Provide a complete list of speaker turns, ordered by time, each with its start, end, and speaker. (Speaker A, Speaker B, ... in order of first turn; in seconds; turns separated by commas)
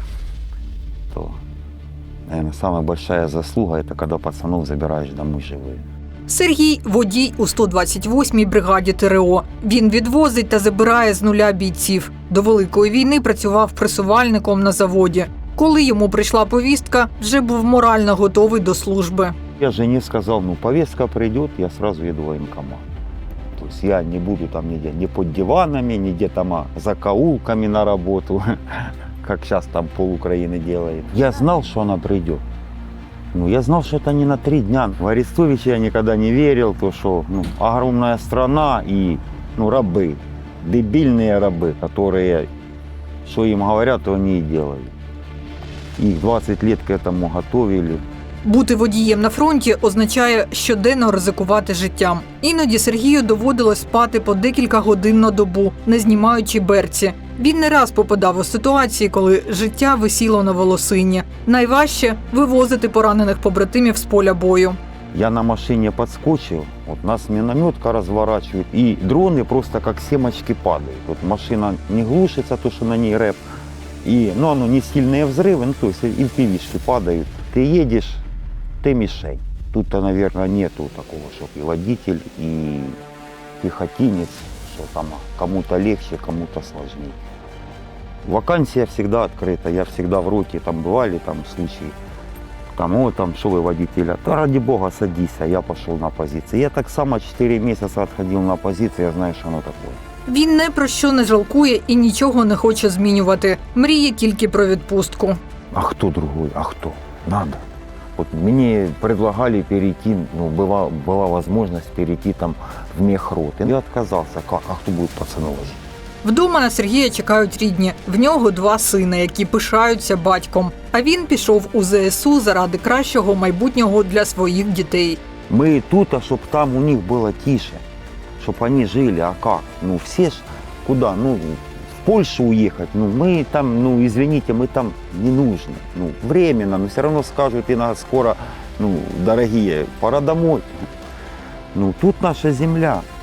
Speaker A: 1.1-1.4, Speaker A: 2.3-5.8, Speaker B: 6.3-19.3, Speaker A: 19.6-22.9, Speaker A: 23.5-32.4, Speaker A: 33.3-42.5, Speaker A: 43.2-44.9, Speaker A: 46.0-48.0, Speaker B: 48.4-64.8, Speaker A: 65.1-73.4, Speaker A: 74.0-78.2, Speaker A: 78.8-83.0, Speaker A: 83.6-87.2, Speaker A: 88.2-92.0, Speaker A: 92.7-100.0, Speaker B: 100.2-105.4, Speaker A: 105.7-107.6, Speaker A: 108.2-115.8, Speaker B: 116.2-125.2, Speaker A: 125.5-127.8, Speaker A: 128.4-140.7, Speaker A: 141.7-143.1